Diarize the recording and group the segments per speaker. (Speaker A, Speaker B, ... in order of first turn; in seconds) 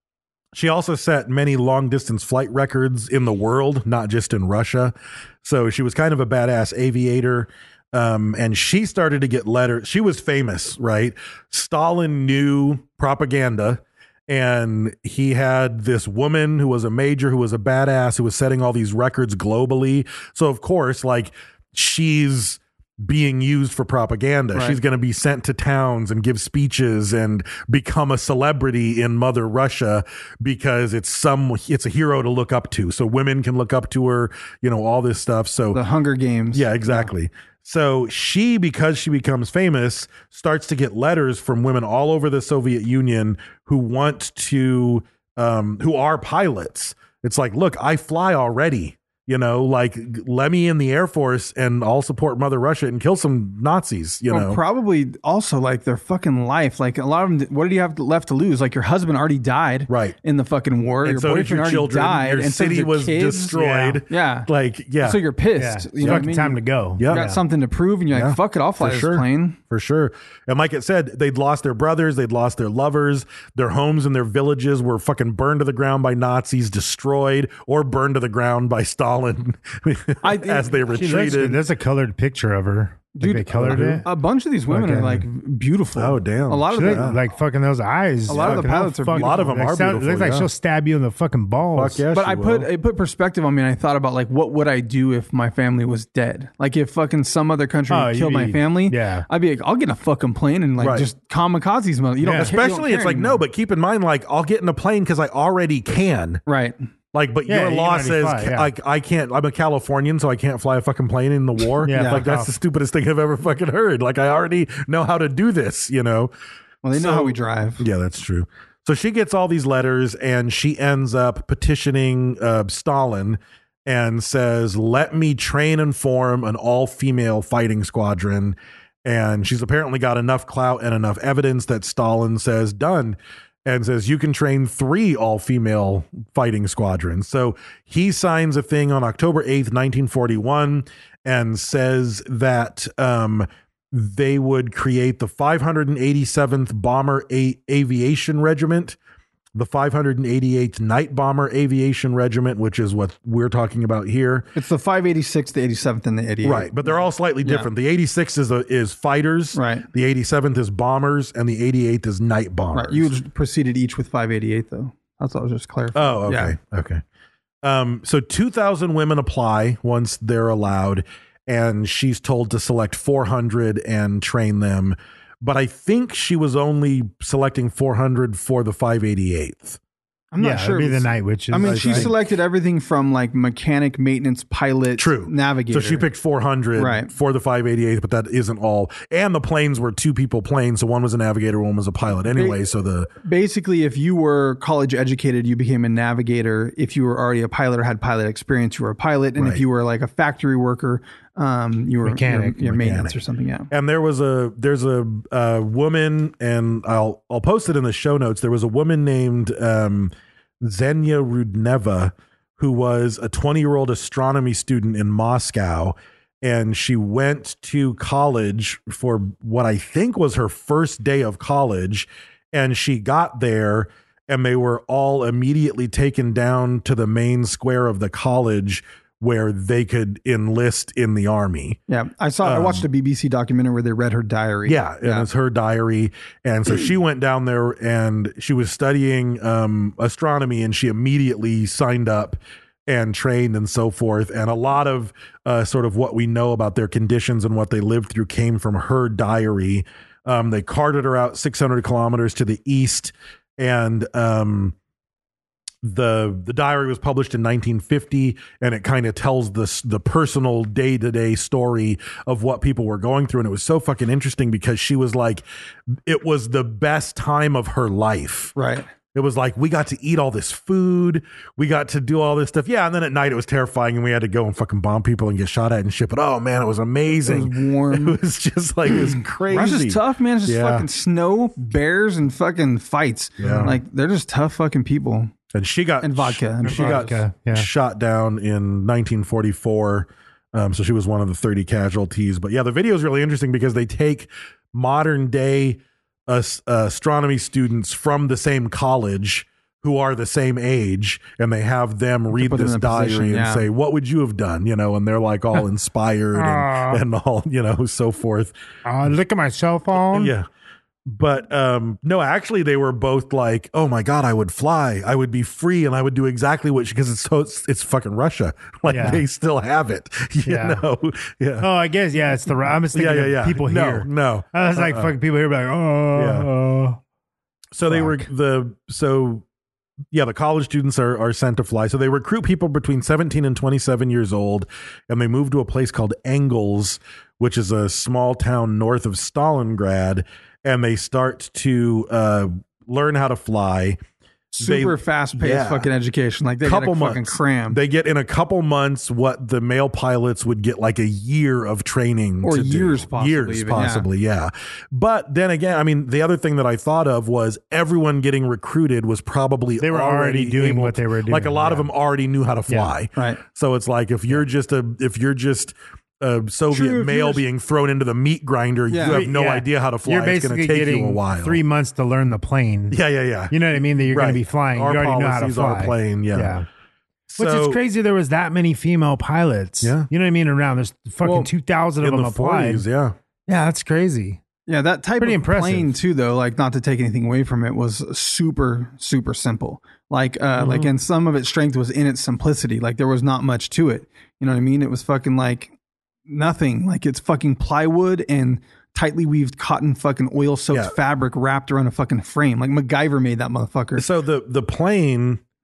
Speaker A: 0.5-35.8, 36.5-54.6, 59.9-60.2, 61.0-65.2, 66.0-66.3, 67.0-67.3, 68.1-81.6, 83.5-84.0, 86.0-87.2, 88.3-90.5, 91.7-92.7, 100.8-101.1, 102.3-106.4, 107.1-116.3, 116.9-149.0, 149.6-154.5, 156.4-163.1, 165.9-167.0, 167.6-179.8, 181.6-182.2, 185.0-193.1, 199.4-199.6, 202.1-203.2, 203.7-231.8, 232.4-232.9, 234.7-254.8, 255.8-265.4, 266.1-268.6, 269.1-280.9, 283.4-283.8, 285.5-308.5, 310.0-310.5, 311.1-321.7, 322.9-325.1, 326.2-326.5, 327.7-329.4, 330.1-344.0, 344.6-345.9, 346.6-371.6, 372.9-376.6, 377.3-377.8, 379.8-380.1, 382.0-383.2, 390.6-390.9, 404.0-405.4
Speaker B: 35.7-37.1, 54.3-63.6, 64.1-64.5, 65.0-69.6, 80.2-80.7, 83.2-87.2, 88.3-89.5, 92.1-103.4, 106.5-106.8, 111.9-112.2, 116.8-117.8, 154.6-157.7, 159.6-159.9, 162.7-166.6, 180.3-186.1, 186.8-187.1, 192.3-192.6, 193.2-203.7, 231.9-235.3, 268.6-268.9, 277.2-278.2, 278.9-285.3, 286.0-287.2, 302.3-303.6, 344.5-347.8, 352.4-354.1, 363.2-363.4, 366.7-367.4, 368.9-369.2, 384.7-395.7, 396.3-404.1
Speaker C: 63.5-64.0, 65.6-67.4, 80.9-84.1, 84.7-85.2, 86.7-92.0, 97.9-99.3, 102.2-102.5, 107.5-108.7, 111.8-112.5, 180.4-182.1, 286.6-287.7, 306.3-307.0, 308.9-310.3, 318.9-319.2, 320.4-320.8, 321.6-327.0, 327.9-328.2, 359.8-361.9, 369.1-373.0, 373.5-376.7, 377.4-382.9, 383.5-384.4, 385.2-385.9